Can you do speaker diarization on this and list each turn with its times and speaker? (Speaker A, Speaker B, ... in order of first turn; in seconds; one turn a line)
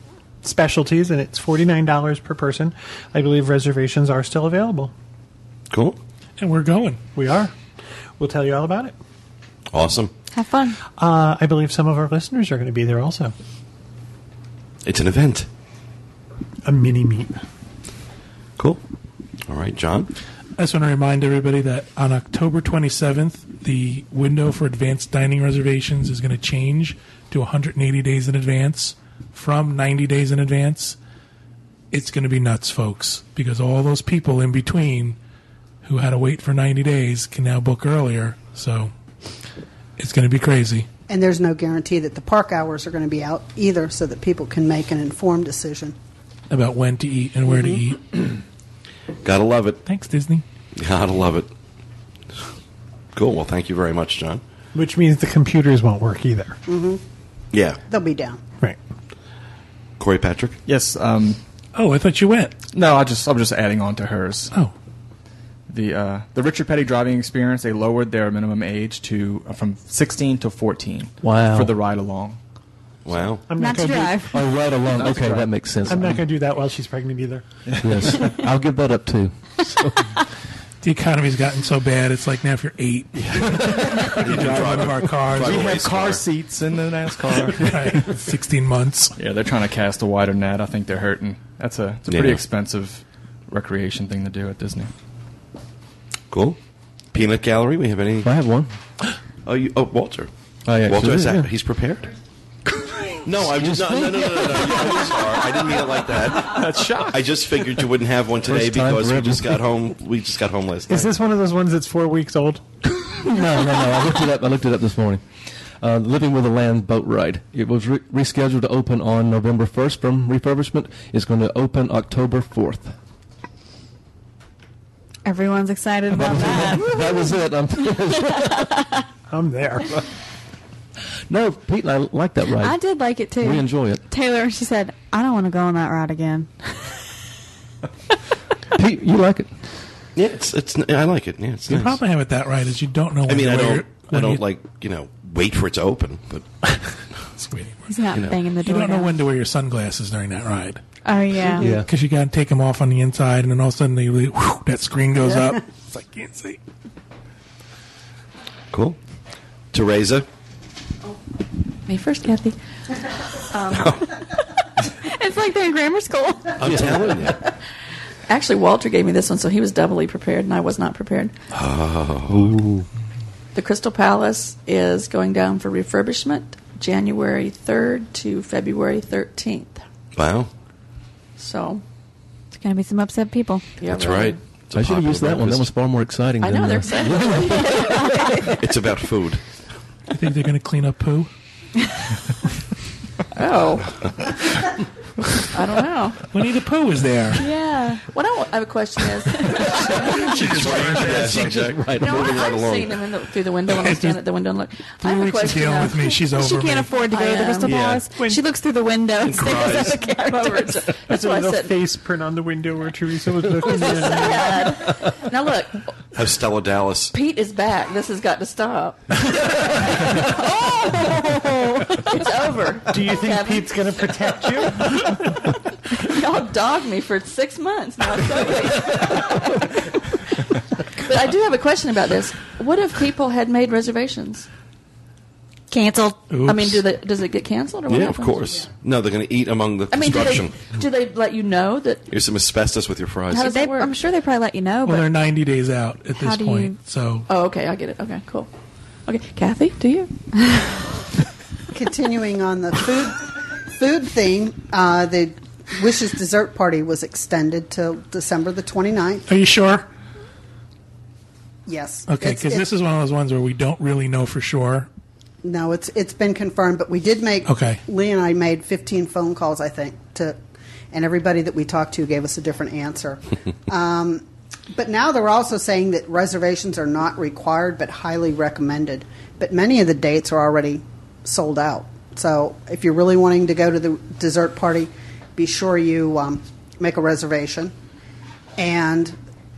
Speaker A: 0.4-4.9
Speaker B: 5.7-6.0
Speaker C: 6.4-7.0
Speaker A: 7.2-7.5
Speaker A: 8.2-8.9
Speaker B: 9.7-10.1
Speaker D: 10.3-10.8
Speaker A: 11.0-13.3
Speaker B: 14.8-15.5
Speaker A: 16.6-17.4
Speaker B: 19.5-20.1
Speaker C: 20.6-31.0
Speaker C: 31.9-35.2
Speaker C: 35.8-38.9
Speaker C: 40.0-40.9
Speaker E: 41.1-46.0
Speaker C: 46.5-48.4
Speaker E: 47.5-47.8
Speaker B: 49.2-49.8
Speaker C: 49.9-50.4
Speaker B: 50.8-51.5
Speaker B: 53.1-54.4
Speaker A: 54.7-56.6
Speaker E: 56.7-57.0
Speaker B: 57.5-57.8
Speaker E: 57.9-58.4
Speaker B: 60.0-60.6
Speaker F: 60.7-61.4
Speaker C: 61.8-62.5
Speaker F: 62.7-64.5
Speaker F: 65.7-72.4
Speaker G: 71.2-71.7
Speaker B: 73.0-73.4
Speaker A: 73.5-74.3
Speaker D: 73.6-74.4
Speaker G: 74.3-76.2
Speaker F: 75.0-76.0
Speaker A: 75.9-77.5
Speaker F: 77.7-78.1
Speaker G: 77.8-80.1
Speaker C: 80.8-85.8
Speaker F: 83.3-84.7
Speaker B: 84.1-86.2
Speaker F: 85.3-88.0
Speaker C: 87.6-89.2
Speaker F: 89.2-94.9
Speaker B: 92.1-92.4
Speaker B: 96.3-96.6
Speaker B: 97.1-98.3
Speaker G: 98.2-98.7
Speaker B: 99.5-100.3
Speaker G: 100.7-101.5
Speaker B: 100.8-102.1
Speaker B: 103.2-111.1
Speaker G: 103.4-104.8
Speaker F: 106.3-107.2
Speaker G: 108.4-109.6
Speaker A: 110.9-112.6
Speaker G: 113.0-115.2
Speaker G: 115.8-122.9
Speaker D: 125.2-127.1
Speaker G: 126.1-128.7
Speaker A: 129.3-129.9
Speaker G: 131.3-132.8
Speaker D: 132.6-137.0
Speaker G: 133.4-134.0
Speaker G: 138.7-139.5
Speaker B: 140.2-142.0
Speaker C: 141.7-144.4
Speaker B: 143.3-146.4
Speaker C: 147.4-147.9
Speaker D: 147.9-149.1
Speaker C: 148.6-150.8
Speaker D: 151.1-151.7
Speaker G: 151.6-151.9
Speaker C: 151.6-156.6
Speaker B: 158.7-159.0
Speaker B: 159.7-160.3
Speaker H: 161.9-162.6
Speaker H: 163.1-164.0
Speaker B: 163.7-164.0
Speaker D: 165.0-166.7
Speaker B: 166.6-167.4
Speaker G: 166.6-167.1
Speaker H: 168.3-171.3
Speaker B: 171.5-172.5
Speaker G: 172.3-172.9
Speaker H: 173.5-179.8
Speaker B: 180.2-180.5
Speaker H: 181.4-181.8
Speaker D: 182.5-183.7
Speaker H: 183.8-184.4
Speaker B: 183.9-185.7
Speaker G: 184.7-188.3
Speaker H: 186.4-188.6
Speaker D: 187.8-188.3
Speaker B: 188.6-189.4
Speaker C: 190.1-191.3
Speaker H: 193.3-194.1
Speaker H: 195.5-196.3
Speaker C: 196.3-197.4
Speaker D: 197.4-198.0
Speaker H: 198.1-200.3
Speaker D: 199.4-199.7
Speaker C: 199.6-201.8
Speaker B: 200.3-203.0
Speaker F: 200.5-201.8
Speaker H: 201.9-206.2
Speaker C: 203.7-204.2
Speaker C: 205.0-206.9
Speaker D: 206.3-210.8
Speaker H: 207.1-207.7
Speaker F: 207.7-208.0
Speaker A: 208.1-208.4
Speaker B: 209.2-210.0
Speaker H: 209.5-211.7
Speaker A: 211.0-214.7
Speaker H: 213.6-215.9
Speaker B: 216.1-217.1
Speaker H: 217.1-220.7
Speaker D: 220.2-222.2
Speaker H: 222.1-224.9
Speaker A: 222.9-225.1
Speaker H: 225.9-234.5
Speaker D: 235.7-236.3
Speaker C: 236.3-236.8
Speaker H: 236.4-238.7
Speaker B: 237.9-240.6
Speaker H: 239.9-242.1
Speaker B: 242.1-243.5
Speaker H: 243.3-244.0
Speaker D: 243.4-245.1
Speaker C: 244.8-247.3
Speaker D: 246.2-246.7
Speaker H: 247.3-248.5
Speaker H: 249.1-250.1
Speaker E: 251.7-259.3
Speaker C: 259.3-259.9
Speaker E: 261.7-262.7
Speaker C: 262.1-264.9
Speaker E: 265.4-270.4
Speaker C: 267.5-267.8
Speaker E: 270.9-287.7
Speaker E: 288.6-289.2